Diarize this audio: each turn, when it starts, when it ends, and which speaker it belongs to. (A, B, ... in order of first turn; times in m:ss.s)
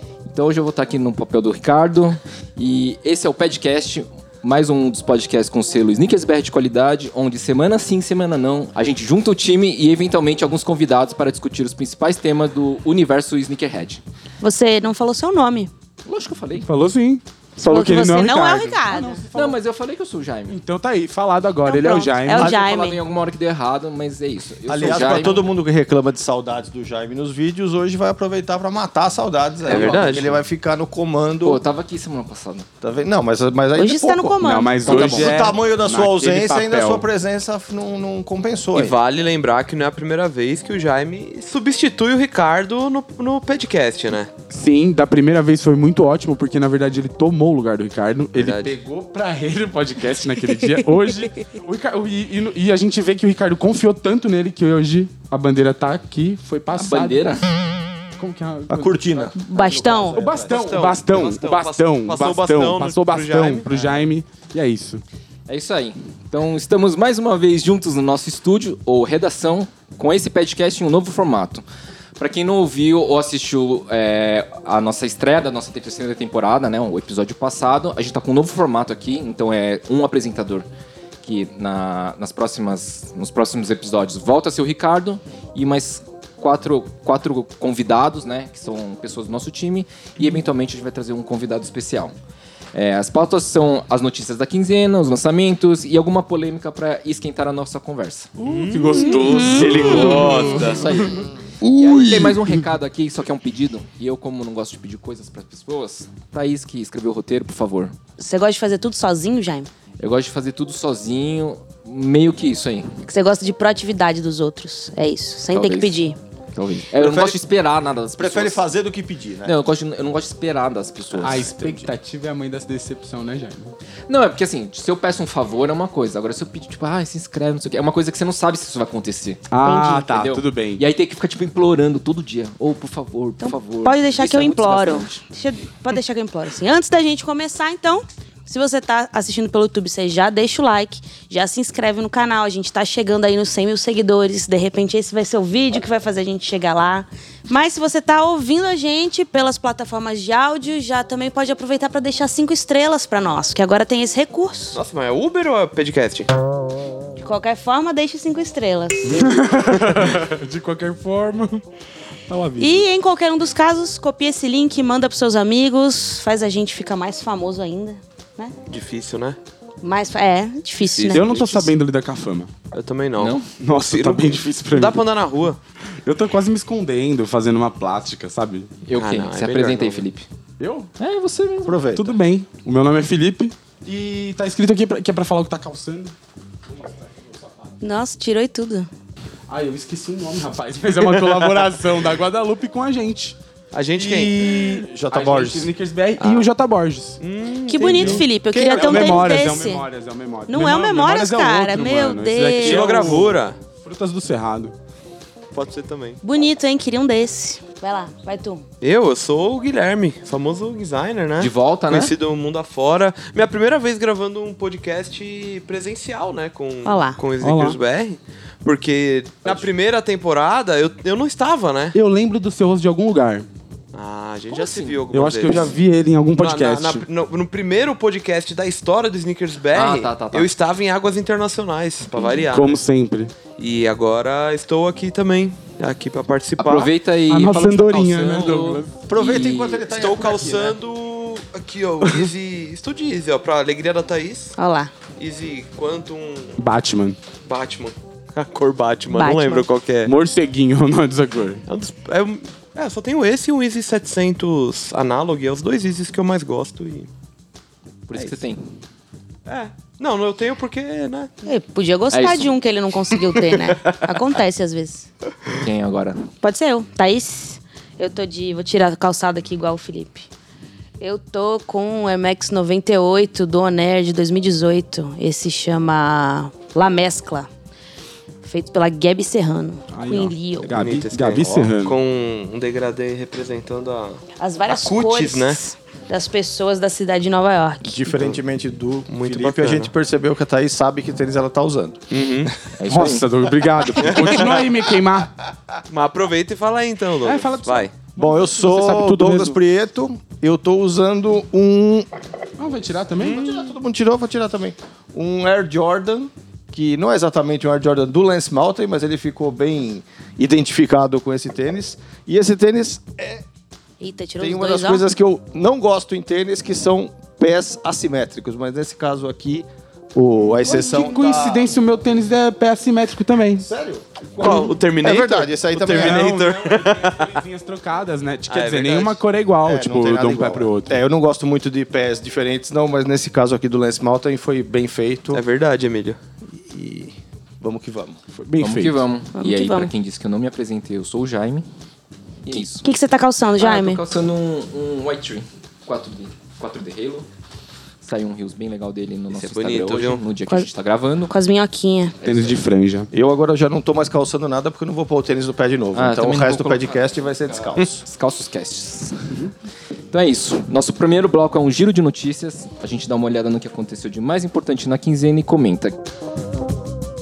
0:00.3-0:14.0 A
0:14.4-0:15.7 B
0:16.0-0:16.7 A
0:16.6-0:19.6 C
0:17.6-0:19.2 B
0:19.3-0:20.6 A
0:20.5-0:22.5 C
0:21.6-0:23.0 B
0:22.3-0:25.5 A
0:24.7-0:31.6 D
0:29.6-0:30.3 E
0:29.7-0:30.2 A
0:31.4-0:32.7 A
0:32.8-0:39.0 D
0:33.7-0:35.1 B
0:34.4-0:37.1 C
0:34.8-0:35.5 A
0:38.7-0:44.3 E
0:44.5-0:57.4 C
0:48.4-0:48.7 E
0:56.7-0:57.5 A
0:58.2-0:59.3 C
0:58.7-1:00.8 D
0:59.4-1:00.3 B
1:00.1-1:05.0 C
1:00.3-1:03.7 E
1:05.5-1:11.6 A
1:12.2-1:20.7 A
1:21.2-1:32.2 A
1:32.7-1:38.3 A
1:38.4-1:41.0 C
1:38.4-1:41.2 E
1:38.9-1:39.4 B
1:39.5-1:48.0 A
1:41.6-1:42.6 C
1:41.8-1:42.2 D
1:48.2-1:49.7 B
1:50.0-1:52.9 A
1:53.0-1:56.2 B
1:55.5-1:56.0 A
1:56.5-1:58.6 A
1:56.9-1:57.4 D
1:58.2-1:59.6 D
1:59.4-2:01.5 A
2:01.2-2:01.9 D
2:01.2-2:03.7 C
2:04.1-2:09.5 A
2:09.5-2:10.8 C
2:09.6-2:10.1 B
2:10.1-2:15.2 A
2:13.4-2:34.8 B
2:34.7-2:36.3 E
2:37.2-2:39.3 B
2:39.0-2:41.6 C
2:42.3-2:42.8 C
2:42.6-2:48.5 B
2:48.7-2:49.4 E
2:49.8-2:51.3 B
2:50.8-2:51.7 E
2:51.1-2:52.5 C
2:52.7-2:55.6 E
2:53.2-2:53.4 A
2:53.5-2:55.0 C
2:56.0-2:58.7 C
2:58.9-3:00.3 A
2:58.9-3:00.0 E
3:00.6-3:00.9 C
3:01.0-3:01.8 A
3:01.6-3:02.2 D
3:01.9-3:06.1 C
3:06.7-3:07.7 C
3:07.8-3:08.9 B
3:09.5-3:13.4 C
3:11.0-3:11.6 E
3:13.7-3:14.4 E
3:13.9-3:17.2 C
3:14.3-3:15.7 D
3:16.2-3:16.5 E
3:17.2-3:18.2 E
3:17.7-3:19.9 B
3:17.8-3:24.7 C
3:18.5-3:19.3 D
3:20.5-3:22.9 B
3:22.6-3:23.6 E
3:25.5-3:26.2 E
3:26.2-3:28.6 B
3:28.8-3:41.9 E
3:31.4-3:32.1 A
3:36.8-3:37.2 B
3:37.4-3:37.8 C
3:41.9-3:43.5 C
3:43.9-3:45.7 E
3:44.5-3:45.0 A
3:45.1-3:47.0 C
3:46.4-3:52.8 E
3:49.7-3:50.5 A
3:52.1-3:52.4 A
3:52.5-3:53.3 C
3:53.6-3:56.9 E
3:56.6-3:59.9 A
3:57.3-3:59.0 C
3:59.1-4:00.8 D
3:59.9-4:04.6 E
4:04.6-4:04.9 B
4:05.2-4:06.6 E
4:06.6-4:07.2 C
4:07.4-4:10.1 E
4:09.1-4:09.6 B
4:10.0-4:11.6 C
4:11.7-4:17.1 E
4:18.1-4:18.7 A
4:18.2-4:18.4 E
4:19.4-4:21.4 E
4:21.4-4:25.1 B
4:22.1-4:22.6 A
4:23.3-4:23.9 E
4:25.5-4:26.3 A
4:26.4-4:30.3 B
4:31.0-4:37.5 B
4:38.4-4:40.8 B
4:39.9-4:42.0 C
4:40.6-4:45.6 E
4:44.4-4:48.3 B
4:47.8-4:52.5 D
4:49.1-4:49.9 E
4:52.1-4:52.5 E
4:52.8-4:53.2 A
4:52.8-4:55.3 C
4:54.0-4:54.4 E
4:55.9-4:57.9 E
4:57.2-4:59.6 C
4:58.2-5:02.1 D
5:02.6-5:03.4 C
5:03.2-5:13.4 D
5:03.2-5:03.7 E
5:14.0-5:15.0 B
5:14.4-5:21.7 D
5:20.6-5:23.6 C
5:23.6-5:26.3 D
5:24.4-5:27.4 E
5:25.8-5:31.0 C
5:28.5-5:29.2 E
5:29.6-5:35.4 D
5:35.3-5:36.2 E
5:36.5-5:38.2 D
5:38.4-5:39.0 C
5:38.6-5:41.6 A
5:39.3-5:39.9 B
5:42.4-5:42.9 A
5:42.7-5:44.0 B
5:43.6-5:47.3 A
5:48.0-5:51.3 A
5:49.3-5:50.2 E
5:51.2-5:52.2 B
5:52.2-5:52.6 A
5:52.2-5:53.1 C
5:53.1-5:58.0 D
5:55.9-5:59.4 A
6:00.1-6:06.0 A